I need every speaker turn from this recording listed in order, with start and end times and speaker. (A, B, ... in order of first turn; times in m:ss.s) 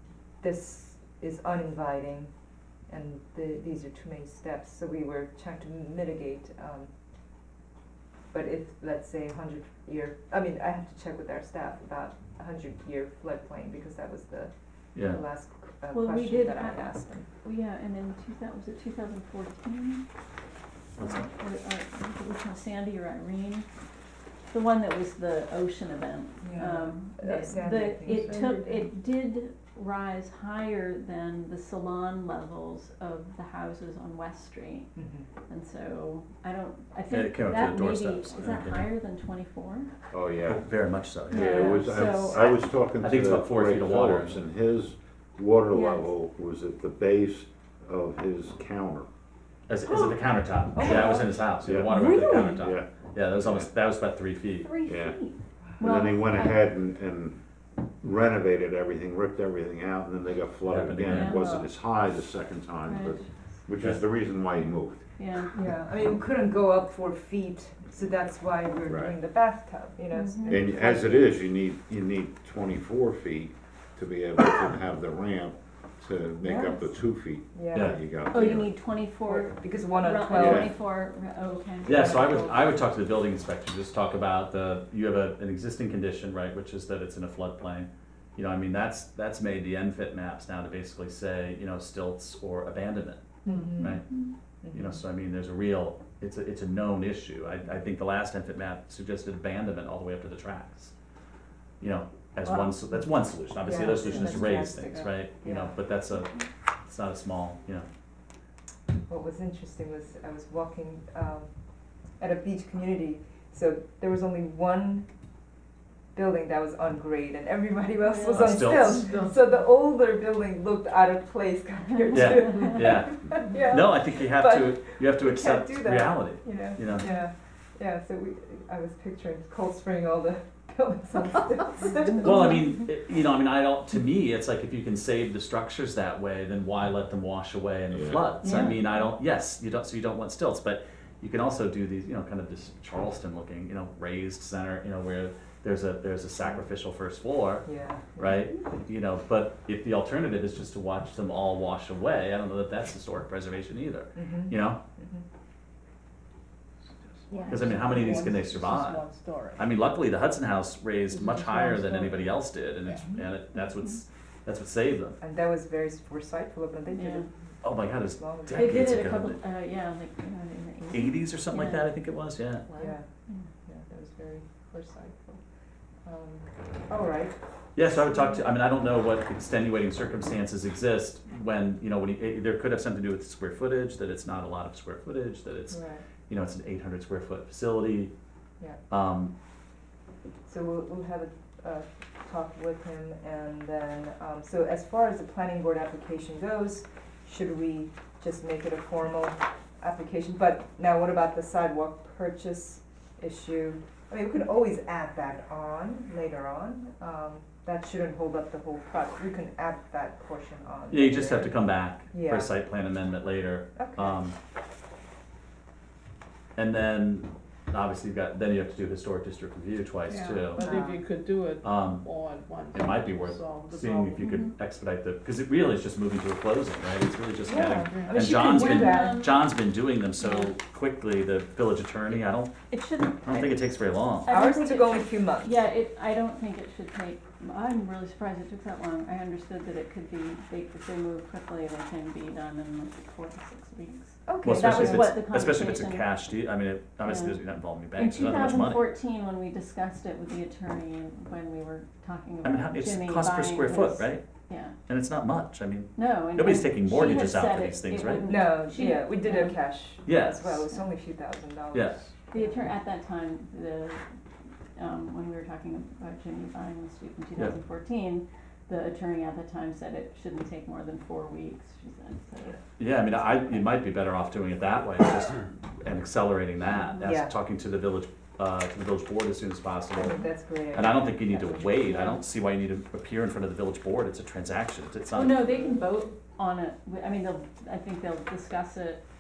0:00.4-0:02.3 A
0:02.9-0:06.9 A
0:08.3-0:17.3 A
0:15.0-0:15.2 B
0:15.9-0:20.0 C
0:21.0-0:21.3 B
0:21.0-0:23.7 C
0:24.5-0:34.9 C
0:26.4-0:28.8 A
0:28.0-0:28.8 D
0:35.0-0:35.3 A
0:35.5-0:39.9 C
0:37.1-0:38.9 B
0:40.1-0:40.7 E
0:40.5-0:41.8 B
0:41.3-0:49.1 E
0:41.3-0:42.7 C
0:43.0-0:44.4 B
0:45.7-0:46.1 C
0:49.7-0:54.7 B
0:49.9-0:51.5 A
0:50.8-0:51.2 C
0:51.6-0:53.7 E
0:51.9-0:52.6 C
0:54.6-0:56.7 C
0:54.9-0:55.2 E
0:55.8-0:57.4 E
0:58.0-1:05.0 E
1:00.7-1:01.5 B
1:01.1-1:01.7 C
1:02.8-1:03.3 C
1:03.8-1:04.0 B
1:05.2-1:05.5 C
1:05.5-1:11.4 A
1:08.9-1:09.2 E
1:10.1-1:10.6 C
1:10.5-1:18.7 E
1:16.4-1:16.9 A
1:17.5-1:18.7 A
1:18.3-1:22.2 C
1:19.2-1:20.7 A
1:20.4-1:20.7 E
1:21.8-1:22.8 A
1:21.9-1:34.0 B
1:33.4-1:34.0 A
1:34.6-1:35.0 A
1:34.7-1:40.9 B
1:41.8-1:46.3 B
1:42.5-1:42.8 D
1:43.6-1:45.7 A
1:46.9-1:47.9 B
1:49.1-1:51.5 A
1:52.2-1:55.1 A
1:56.2-2:12.6 A
1:58.1-1:58.5 C
1:58.3-1:59.0 B
1:58.6-1:59.5 D
2:02.1-2:02.7 C
2:02.1-2:07.1 B
2:12.2-2:34.8 B
2:17.9-2:18.4 E
2:18.4-2:18.9 C
2:27.7-2:28.3 A
2:34.2-2:35.2 A
2:37.5-2:39.7 D
2:37.5-2:39.0 B
2:39.6-2:45.2 B
2:41.1-2:42.3 D
2:43.6-2:43.9 C
2:45.2-2:47.3 A
2:46.9-2:47.3 C
2:47.6-2:49.4 B
2:48.2-2:48.9 A
2:48.5-2:51.9 C
2:50.9-2:52.6 B
2:52.7-2:53.5 C
2:52.8-2:53.1 A
2:53.7-2:55.4 A
2:56.0-2:57.4 A
2:57.8-3:08.1 B
3:05.7-3:06.0 A
3:08.9-3:09.3 B
3:10.5-3:31.6 A
3:30.9-3:34.4 B
3:32.1-3:32.5 A
3:33.8-3:34.2 A
3:36.6-3:40.8 B
3:40.1-3:44.3 D
3:40.4-3:41.0 A
3:41.6-3:42.0 B
3:42.7-3:52.5 B
3:44.2-3:44.6 C
3:47.5-3:49.2 A
3:48.3-3:49.6 C
3:50.2-3:50.5 C
3:52.7-3:53.6 C
3:53.2-3:54.3 B
3:54.2-4:06.2 C
3:54.3-3:55.6 A
4:04.3-4:05.1 A
4:04.4-4:08.8 B
4:07.0-4:14.8 C
4:12.4-4:14.2 B
4:14.9-4:18.3 B
4:16.0-4:19.6 C
4:18.2-4:22.7 A
4:20.0-4:20.7 B
4:21.7-4:22.1 B
4:22.3-4:24.0 C
4:24.8-4:32.6 C
4:32.8-4:40.2 B
4:33.2-4:33.6 C
4:36.6-4:37.2 C
4:37.0-4:37.3 A
4:40.0-4:42.2 A
4:40.7-4:45.4 B
4:45.1-4:49.0 C
4:45.5-4:45.8 A